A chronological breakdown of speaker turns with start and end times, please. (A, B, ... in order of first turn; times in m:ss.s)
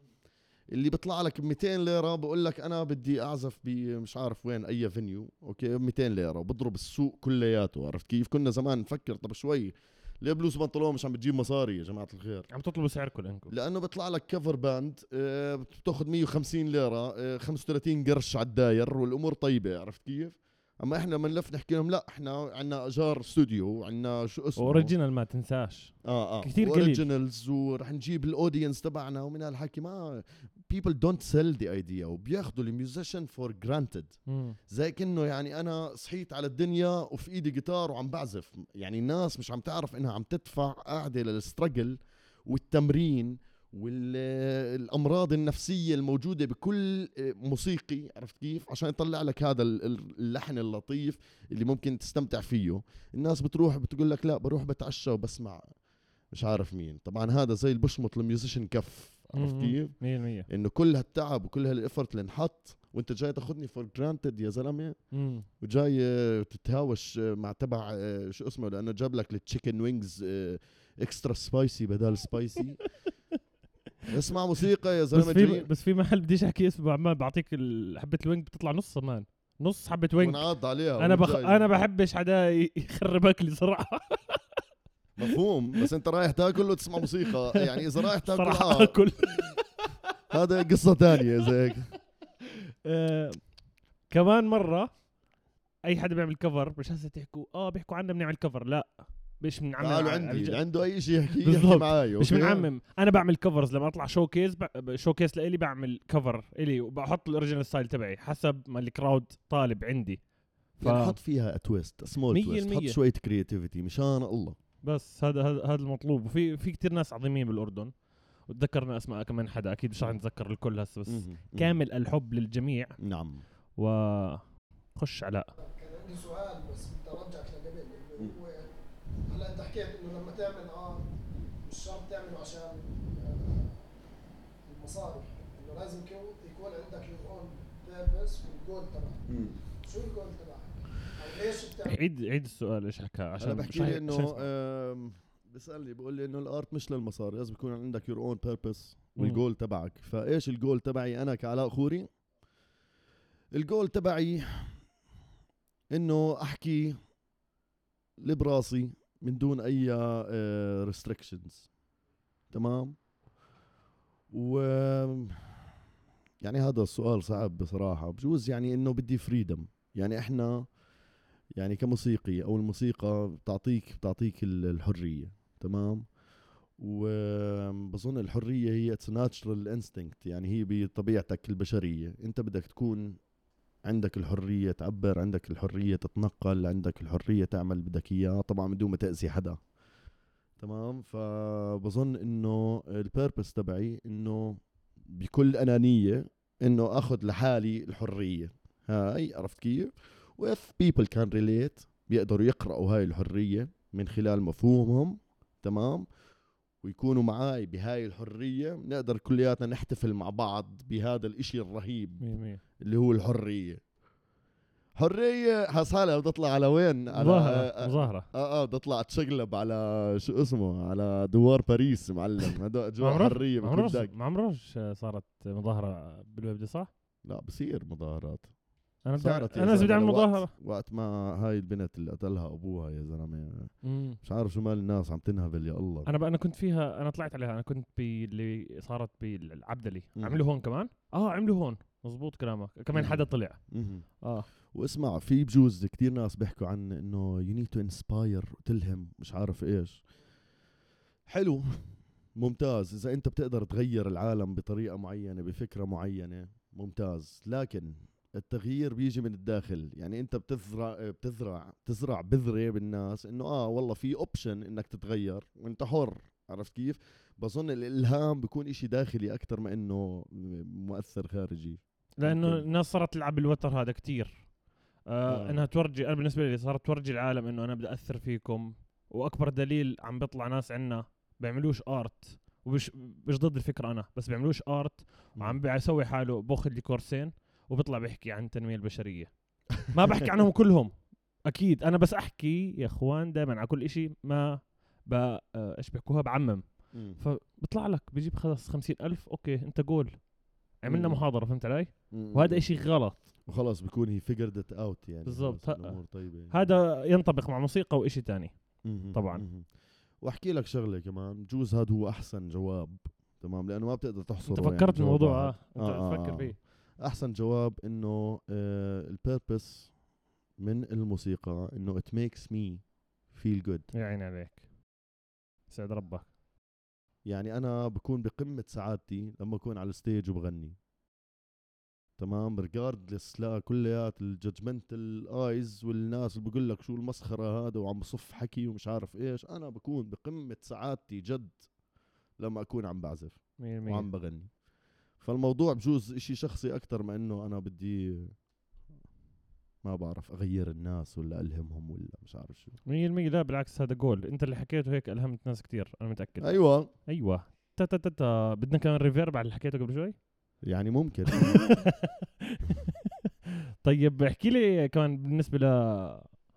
0:00.7-0:12.5 A
0:12.5-0:13.5 B
0:13.5-0:24.9 A
0:24.6-0:27.0 B
0:26.0-0:34.2 A
0:34.3-0:34.6 B
0:34.7-0:55.6 A
0:56.3-1:00.0 A
0:59.3-1:00.5 B
1:00.5-1:05.0 A
1:05.1-1:05.5 B
1:05.6-1:12.8 A
1:14.1-1:15.7 A
1:15.1-1:20.4 B
1:20.2-1:21.6 A
1:21.0-1:24.4 B
1:25.2-1:29.0 A
1:27.3-1:30.0 B
1:30.3-1:31.9 A
1:32.8-1:33.4 B
1:34.1-1:34.9 B
1:35.8-1:40.6 B
1:39.8-1:42.7 A
1:41.4-1:50.2 B
1:50.8-1:51.2 B
1:50.8-1:54.6 A
1:52.3-1:53.0 B
1:54.8-1:57.9 B
1:58.5-2:03.0 B
2:01.1-2:01.7 A
2:03.0-2:03.4 A
2:03.8-2:04.4 B
2:04.9-2:05.5 B
2:05.6-2:08.7 C
2:09.2-2:13.9 C
2:14.6-2:22.0 C
2:19.3-2:19.6 A
2:21.8-2:24.5 B
2:23.4-2:32.1 A
2:33.5-2:34.8 A
2:35.9-2:37.0 A
2:38.2-2:41.7 A
2:42.5-2:43.0 A
2:44.3-2:45.6 A
2:46.4-2:50.7 A
2:51.6-2:56.1 A
2:56.8-3:03.2 A
3:03.8-3:09.6 A
3:10.6-3:26.0 A
3:26.8-3:32.2 A
3:32.2-3:32.6 B
3:32.8-3:33.8 A
3:35.0-3:44.1 A
3:37.1-3:38.3 B
3:43.0-3:46.9 B
3:47.2-3:48.5 A
3:49.0-3:50.5 B
3:49.2-3:56.1 A
3:53.8-3:54.2 B
3:56.0-4:03.6 B
4:00.2-4:00.4 A
4:02.9-4:04.1 A
4:04.2-4:04.5 B
4:04.7-4:10.0 A
4:11.3-4:32.6 A
4:32.2-4:34.5 B
4:35.1-4:50.9 B
4:35.3-4:35.6 A
4:51.4-5:03.2 B
4:56.9-4:57.2 A
5:00.9-5:01.2 A
5:02.1-5:02.6 A
5:03.5-5:06.7 A
5:05.2-5:08.5 B
5:08.8-5:09.7 A
5:09.1-5:09.4 B
5:10.2-5:19.9 A
5:14.5-5:16.6 B
5:20.6-5:23.9 A
5:23.9-5:24.6 B
5:25.7-5:26.3 B
5:27.2-5:30.8 A
5:32.2-5:41.6 A
5:42.4-5:44.5 A
5:43.6-5:44.1 B
5:45.2-5:48.3 A
5:49.8-5:52.8 A
5:52.8-6:00.2 B
5:56.4-5:56.9 A
6:00.6-6:01.8 A
6:01.3-6:03.1 B
6:03.8-6:06.4 B